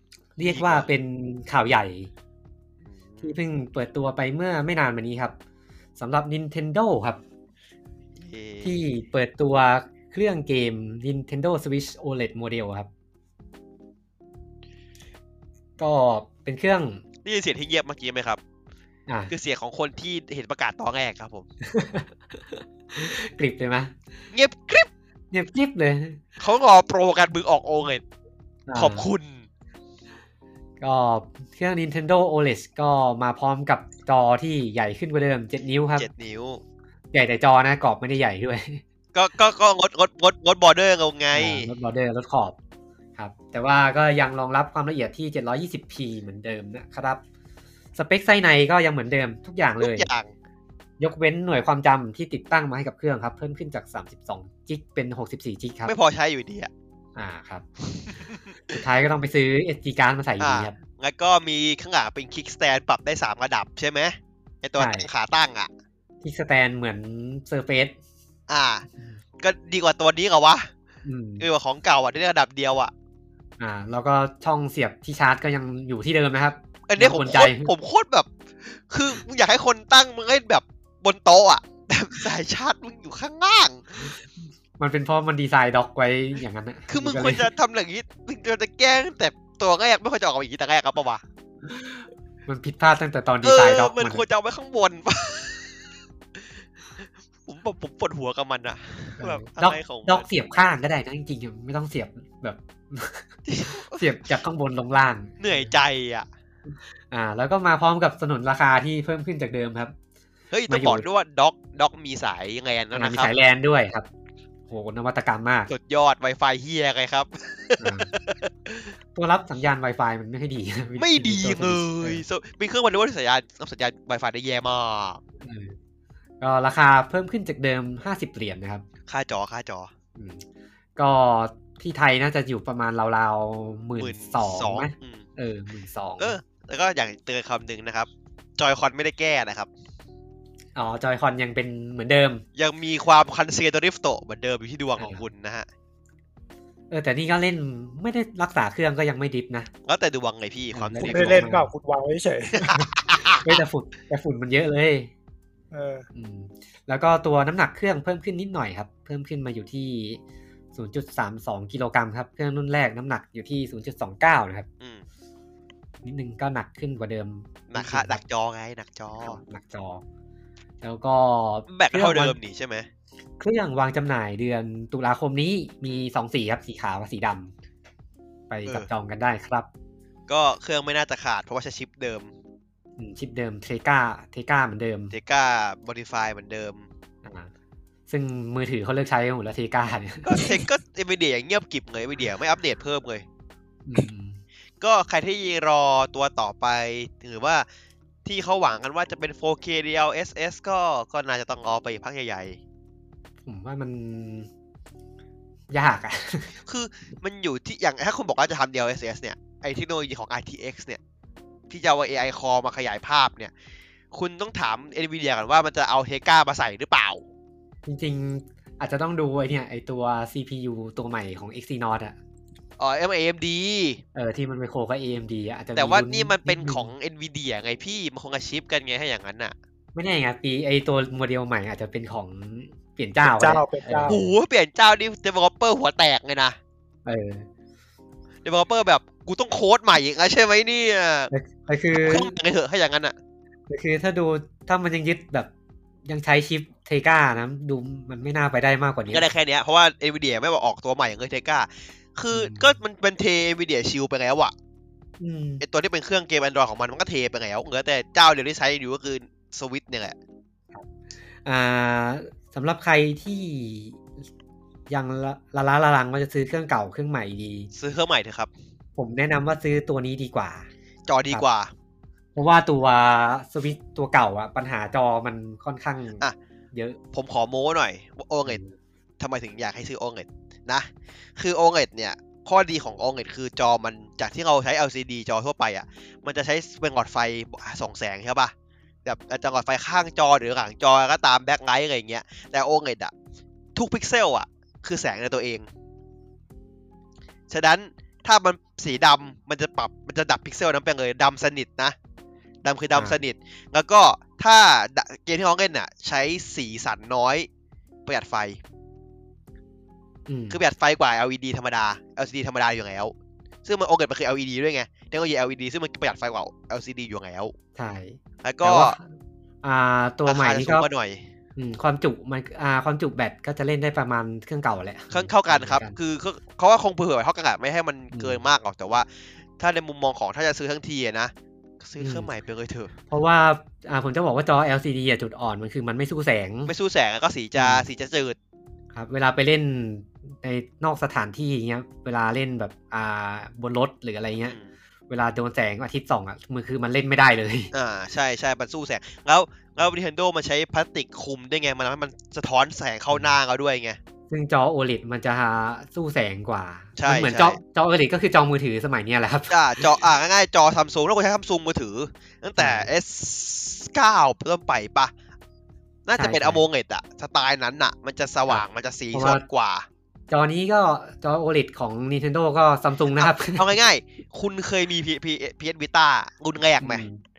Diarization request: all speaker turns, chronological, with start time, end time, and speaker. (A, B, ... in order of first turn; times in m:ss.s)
0:00.4-0:02.1 A
0:00.4-0:00.9 B
0:02.8-0:03.4 B
0:03.2-0:05.3 A
0:06.0-0:07.2 A
0:08.2-0:08.8 B
0:08.6-0:12.9 A
0:15.8-0:17.0 A
0:17.2-0:18.4 B
0:19.3-0:21.5 B
0:21.7-0:23.9 A
0:24.3-0:24.9 B
0:25.3-0:26.2 A
0:26.4-0:28.0 B
0:28.7-0:29.1 A
0:28.7-0:29.5 B
0:30.8-0:36.1 A
0:35.9-0:36.6 B
0:37.1-0:38.8 A
0:39.1-0:41.7 B
0:41.3-0:42.6 A
0:43.2-0:47.2 A
0:47.9-0:50.1 A
0:49.8-0:50.3 B
0:51.0-0:55.9 A
0:55.8-0:56.7 B
0:57.2-0:57.6 A
0:57.9-0:58.5 B
0:58.7-1:00.8 A
1:00.4-1:05.7 B
1:04.8-1:05.1 A
1:06.2-1:08.0 A
1:08.5-1:08.8 B
1:09.4-1:10.7 B
1:11.0-1:11.4 A
1:11.4-1:12.9 B
1:13.6-1:17.7 A
1:16.9-1:24.1 B
1:24.8-1:27.5 A
1:26.9-1:31.2 B
1:31.7-1:34.2 A
1:33.4-1:36.4 B
1:37.0-1:40.3 B
1:39.2-1:45.7 A
1:43.4-1:44.3 B
1:45.4-1:46.3 B
1:47.1-1:49.9 A
1:50.5-1:53.3 B
1:50.7-1:51.0 A
1:52.9-1:54.1 A
1:54.7-1:55.7 A
1:55.7-1:58.9 B
1:57.8-1:58.1 A
1:59.1-2:02.2 A
2:01.0-2:05.2 B
2:05.4-2:05.8 A
2:06.4-2:08.8 A
2:09.1-2:09.9 B
2:10.2-2:10.4 A
2:11.0-2:16.3 A
2:14.0-2:15.2 B
2:16.2-2:19.7 B
2:20.7-2:22.4 A
2:22.6-2:25.7 B
2:25.0-2:25.2 A
2:26.9-2:29.7 A
2:29.8-2:31.5 B
2:30.7-2:31.7 A
2:31.0-2:32.8 C
2:32.6-2:33.5 B
2:33.2-2:35.1 A
2:35.7-2:36.1 C
2:36.1-2:40.2 A
2:40.7-2:44.7 A
2:46.0-2:48.2 A
2:47.7-2:49.4 B
2:49.2-2:50.0 A
2:50.8-2:52.4 A
2:51.7-2:52.9 B
2:53.4-2:57.5 A
2:58.5-2:59.7 A
3:00.3-3:02.3 B
3:03.0-3:05.1 A
3:05.1-3:06.9 B
3:07.2-3:07.5 A
3:08.1-3:10.6 A
3:10.2-3:13.2 B
3:13.8-3:14.4 A
3:14.8-3:17.6 B
3:18.2-3:22.6 B
3:23.4-3:24.5 A
3:25.7-3:26.6 A
3:26.6-3:31.0 B
3:31.7-3:33.5 B
3:34.1-3:37.2 B
3:37.8-3:42.2 A
3:42.8-3:44.0 B
3:44.1-3:46.9 A
3:45.7-3:49.5 B
3:49.9-3:54.3 A
3:53.2-3:54.2 C
3:54.0-3:56.6 B
3:57.0-3:57.5 A
3:58.4-4:01.3 B
4:01.3-4:02.3 A
4:02.0-4:03.2 B
4:03.7-4:05.5 A
4:06.0-4:09.2 A
4:09.1-4:14.5 B
4:12.3-4:12.7 A
4:15.2-4:15.6 A
4:15.6-4:20.1 B
4:21.4-4:24.0 A
4:24.9-4:27.7 A
4:27.7-4:28.5 B
4:29.0-4:30.7 A
4:31.1-4:31.7 B
4:32.3-4:37.0 A
4:37.1-4:38.6 B
4:38.4-4:38.7 A
4:39.2-4:48.5 B
4:49.0-4:53.1 B
4:53.7-4:55.7 B
4:57.5-5:01.9 B
5:02.6-5:07.5 B
5:02.9-5:03.2 A
5:08.0-5:08.6 B
5:10.3-5:10.6 A
5:10.5-5:17.5 B
5:17.8-5:19.0 A
5:18.4-5:19.0 B
5:19.6-5:20.8 A
5:20.2-5:21.3 B
5:21.6-5:26.0 A
5:25.1-5:32.9 B
5:28.1-5:28.4 A
5:32.0-5:32.3 A
5:33.1-5:36.7 A
5:36.7-5:38.4 B
5:37.6-5:37.8 A
5:38.9-5:44.6 A
5:45.1-5:47.7 A
5:47.7-5:54.0 B
5:53.1-5:53.4 A
5:54.3-6:00.0 A
5:57.0-5:57.6 B
5:59.5-6:05.1 B
6:02.6-6:02.9 A
6:06.0-6:09.9 B
6:06.2-6:06.6 A
6:08.5-6:09.4 A
6:10.3-6:13.7 A
6:13.2-6:17.0 B
6:16.8-6:17.2 A